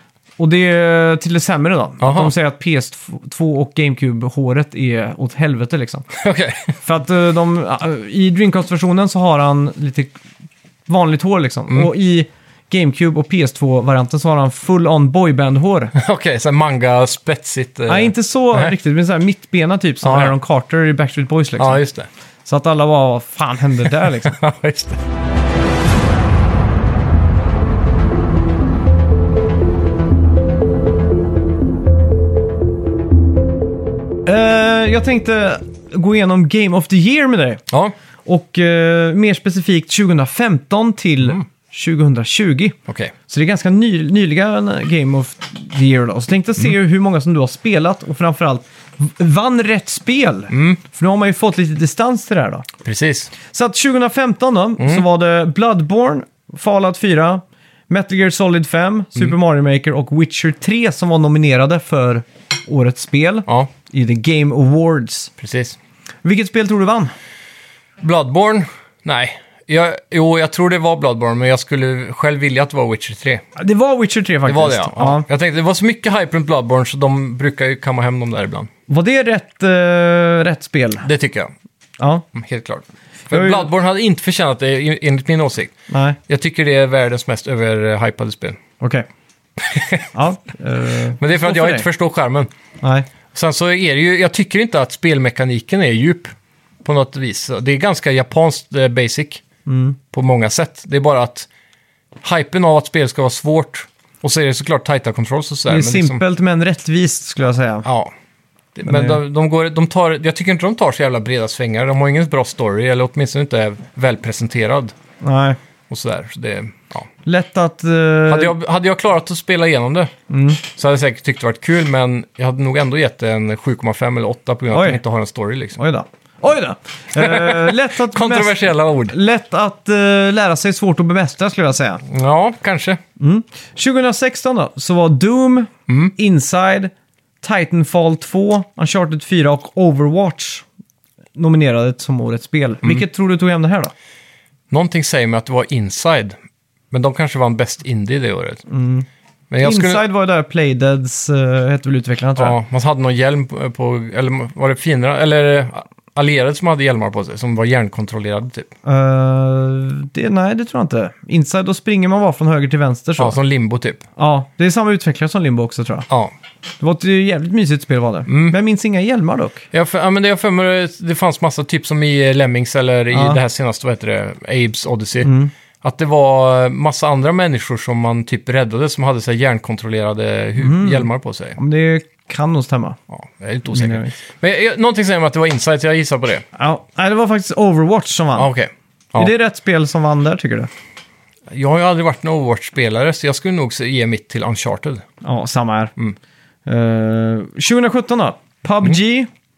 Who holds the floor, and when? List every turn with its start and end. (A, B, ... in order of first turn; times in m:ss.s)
0:00.4-0:06.1 A
0:02.0-0:02.3 B
0:06.1-0:06.7 B
0:06.8-0:10.2 A
0:10.9-0:16.0 A
0:16.0-0:18.7 B
0:17.9-0:21.8 A
0:20.0-0:20.4 B
0:21.6-0:22.1 B
0:22.5-0:24.4 A
0:23.8-0:25.0 B
0:34.2-0:37.6 A
0:38.3-0:42.8 A
0:42.9-0:43.1 B
0:43.3-0:52.7 A
0:50.5-0:50.8 B
0:52.8-0:53.3 B
0:53.4-1:05.3 A
0:54.8-0:55.0 B
1:05.4-1:05.8 B
1:06.2-1:07.1 A
1:08.0-1:13.4 B
1:13.6-1:15.3 A
1:14.5-1:18.7 B
1:18.9-1:21.1 A
1:21.0-1:21.5 B
1:22.0-1:22.2 A
1:22.3-1:25.7 B
1:23.3-1:23.7 A
1:25.9-1:26.2 A
1:26.3-1:28.6 B
1:28.8-1:29.1 A
1:29.6-1:30.1 B
1:30.1-1:31.9 A
1:31.2-1:32.5 B
1:32.8-1:33.1 A
1:33.3-1:36.3 B
1:36.8-1:39.4 B
1:39.7-1:40.0 A
1:40.1-1:41.5 B
1:42.2-1:46.2 B
1:45.7-1:47.9 A
1:47.8-1:48.1 B
1:48.8-1:55.0 B
1:48.9-1:49.2 A
1:55.2-1:55.6 A
1:55.9-1:57.1 B
1:57.2-1:58.6 A
1:58.3-2:05.8 B
2:00.3-2:00.6 A
2:04.7-2:05.0 A
2:05.8-2:12.0 A
2:07.2-2:09.2 B
2:12.0-2:13.0 B
2:13.2-2:20.7 A
2:15.9-2:16.1 B
2:21.4-2:23.9 A
2:24.7-2:26.4 B
2:26.9-2:28.6 B
2:28.7-2:29.1 A
2:29.5-2:30.0 B
2:29.6-2:32.6 A
2:32.4-2:38.7 B
2:38.8-2:43.4 A
2:43.2-2:44.1 B
2:44.2-2:46.1 A
2:46.8-2:49.7 A
2:48.3-2:48.6 B
2:49.7-3:01.6 B
2:53.1-2:53.4 A
2:55.2-2:55.5 A
3:00.6-3:03.0 A
3:03.1-3:06.5 B
3:03.7-3:04.2 A
3:06.6-3:08.5 A
3:08.4-3:09.3 B
3:09.2-3:10.7 A
3:11.5-3:15.0 B
3:15.2-3:15.9 A
3:16.7-3:19.3 A